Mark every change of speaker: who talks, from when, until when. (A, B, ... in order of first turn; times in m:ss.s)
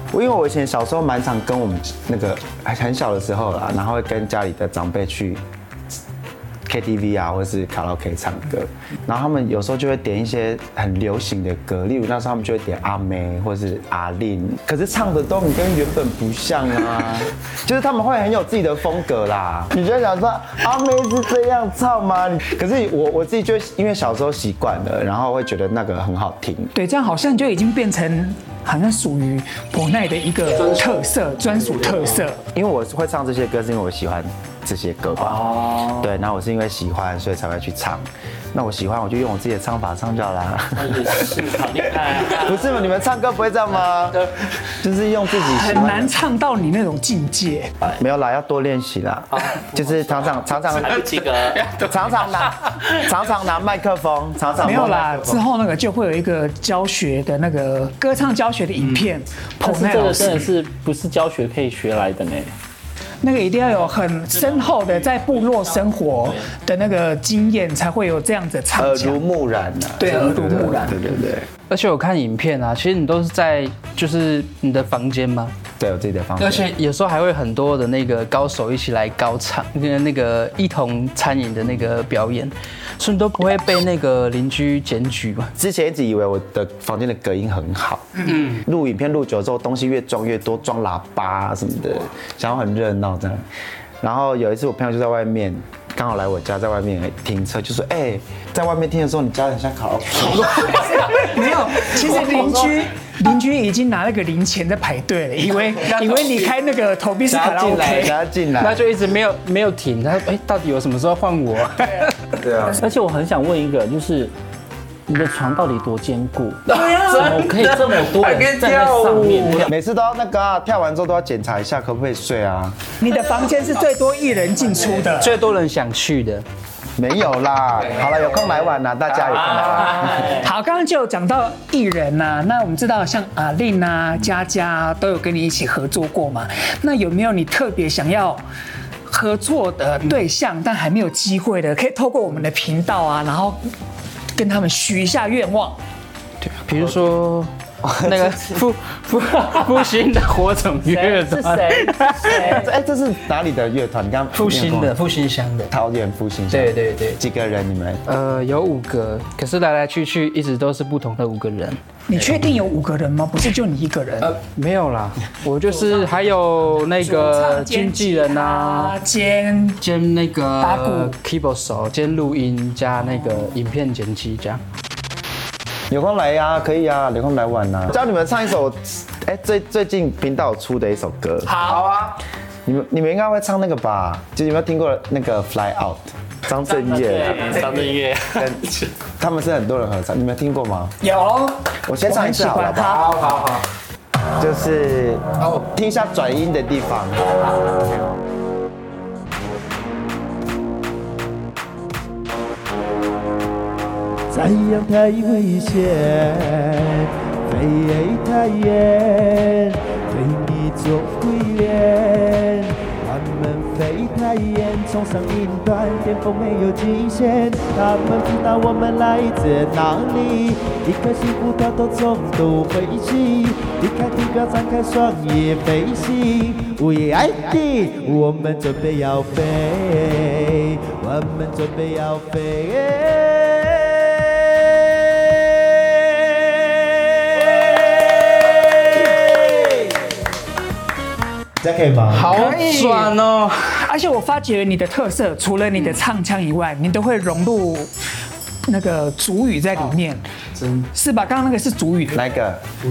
0:00.1-0:05.4 A
0:06.7-0:26.7 A
0:26.7-0:32.4 B
0:32.5-0:41.4 A
0:35.3-0:36.0 C
0:40.8-0:42.6 C
0:42.3-0:46.2 A
0:45.5-0:47.7 B
0:47.8-0:51.0 A
0:49.5-0:50.0 C
0:50.7-0:51.6 C
0:50.7-0:53.0 D
0:51.8-0:55.5 A
0:54.6-1:00.4 B
0:59.6-1:02.5 C
1:03.2-1:09.2 B
1:08.7-1:11.5 A
1:10.0-1:11.1 B
1:11.7-1:15.6 D
1:15.8-1:16.7 A
1:16.4-1:25.5 D
1:25.6-1:33.4 A
1:28.3-1:28.6 D
1:34.0-1:40.6 A
1:40.4-1:48.2 B
1:40.5-1:41.2 D
1:42.0-1:42.7 A
1:45.9-1:46.4 D
1:47.3-1:48.8 A
1:48.6-1:52.2 D
1:52.4-1:52.8 A
1:52.8-1:54.3 C
1:55.1-1:59.7 C
1:56.7-1:59.6 D
1:59.6-2:02.8 A
2:03.0-2:05.4 B
2:05.0-2:06.4 D
2:07.0-2:10.3 A
2:10.0-2:18.4 B
2:19.1-2:23.6 B
2:24.4-2:25.8 B
2:26.4-2:27.5 D
2:27.8-2:28.6 A
2:28.0-2:32.6 D
2:30.8-2:32.7 C
2:32.4-2:35.0 A
2:34.3-2:35.7 D
2:35.7-2:38.0 A
2:36.5-2:37.2 D
2:38.1-2:41.8 D
2:42.1-2:44.4 B
2:44.2-2:49.0 D
2:47.0-2:49.8 B
2:49.8-2:54.6 D
2:50.6-2:51.1 B
2:55.9-3:01.6 A
3:01.4-3:01.9 B
3:01.7-3:02.1 D
3:02.7-3:07.6 A
3:06.7-3:08.5 C
3:08.4-3:11.0 A
3:11.0-3:13.1 B
3:11.9-3:13.1 A
3:12.9-3:13.6 D
3:14.4-3:17.3 A
3:24.3-3:54.2 E
3:57.4-3:59.9 E
4:01.6-4:02.5 A
4:02.1-4:03.6 D
4:02.3-4:03.1 B
4:03.7-4:07.9 B
4:08.7-4:10.2 B
4:10.9-4:12.3 B
4:12.1-4:12.6 A